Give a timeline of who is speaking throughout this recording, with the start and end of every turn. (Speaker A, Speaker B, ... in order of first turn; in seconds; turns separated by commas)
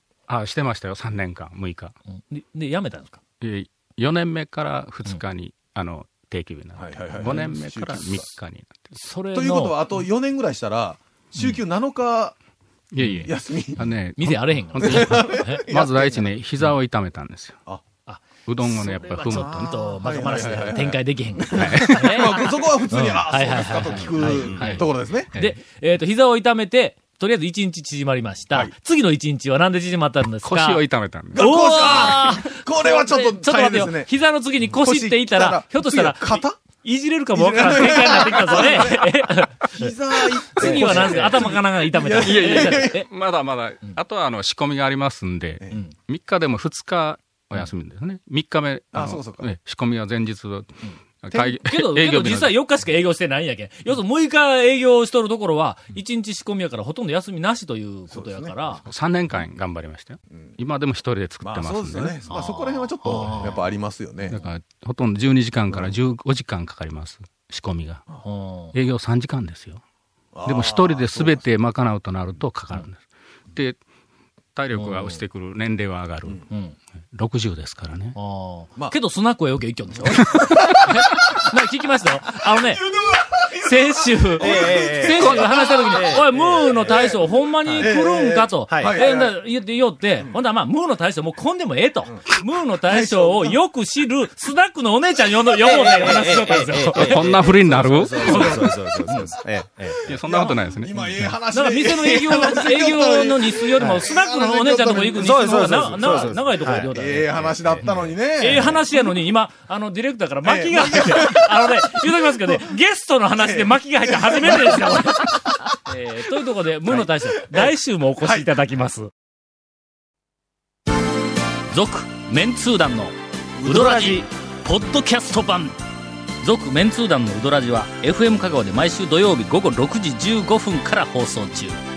Speaker A: 0.3-1.9, Speaker B: 2.2-3.2, Speaker A: 3.4-8.9, Speaker C: 6.8-8.3, Speaker B: 8.9-10.0, Speaker C: 9.3-12.3, Speaker A: 12.9-17.6, Speaker B: 13.0-13.3, Speaker C: 13.2-13.9, Speaker B: 14.2-15.7, Speaker C: 14.8-16.3, Speaker B: 18.1-30.8, Speaker A: 18.5-19.7, Speaker C: 19.1-25.3, Speaker A: 21.6-22.4, Speaker D: 24.2-24.7, Speaker A: 24.6-24.8, Speaker A: 30.4-31.9, Speaker C: 31.3-34.1, Speaker B: 31.4-43.1, Speaker C: 34.6-36.6, Speaker C: 37.3-43.0, Speaker A: 40.6-41.5, Speaker A: 42.2-52.5, Speaker C: 48.9-49.5, Speaker B: 50.9-58.8, Speaker C: 58.1-58.6, Speaker A: 58.8-62.2, Speaker C: 61.4-64.4, Speaker B: 62.3-63.7, Speaker A: 64.3-68.1, Speaker B: 68.2-68.7, Speaker A: 68.7-69.8, Speaker C: 70.3-71.4, Speaker A: 70.4-73.0, Speaker A: 74.5-76.5, Speaker B: 74.8-75.2, Speaker B: 76.5-76.8, Speaker A: 77.1-78.2, Speaker B: 78.2-82.8, Speaker C: 80.3-81.5, Speaker C: 82.5-86.0, Speaker B: 83.6-97.4, Speaker D: 84.4-87.1, Speaker C: 86.7-87.2, Speaker D: 87.6-88.0, Speaker C: 87.8-89.4, Speaker D: 88.6-89.0, Speaker C: 92.9-93.6, Speaker D: 95.6-100.0, Speaker A: 97.0-98.6, Speaker C: 98.0-98.7, Speaker B: 98.2-99.3, Speaker C: 100.0-108.9, Speaker A: 100.1-101.4, Speaker B: 101.5-119.1, Speaker D: 103.8-104.0, Speaker D: 105.2-108.0, Speaker C: 110.5-112.6, Speaker C: 113.4-115.8, Speaker C: 118.2-118.5, Speaker B: 121.7-125.8, Speaker D: 123.6-124.3, Speaker B: 126.4-131.8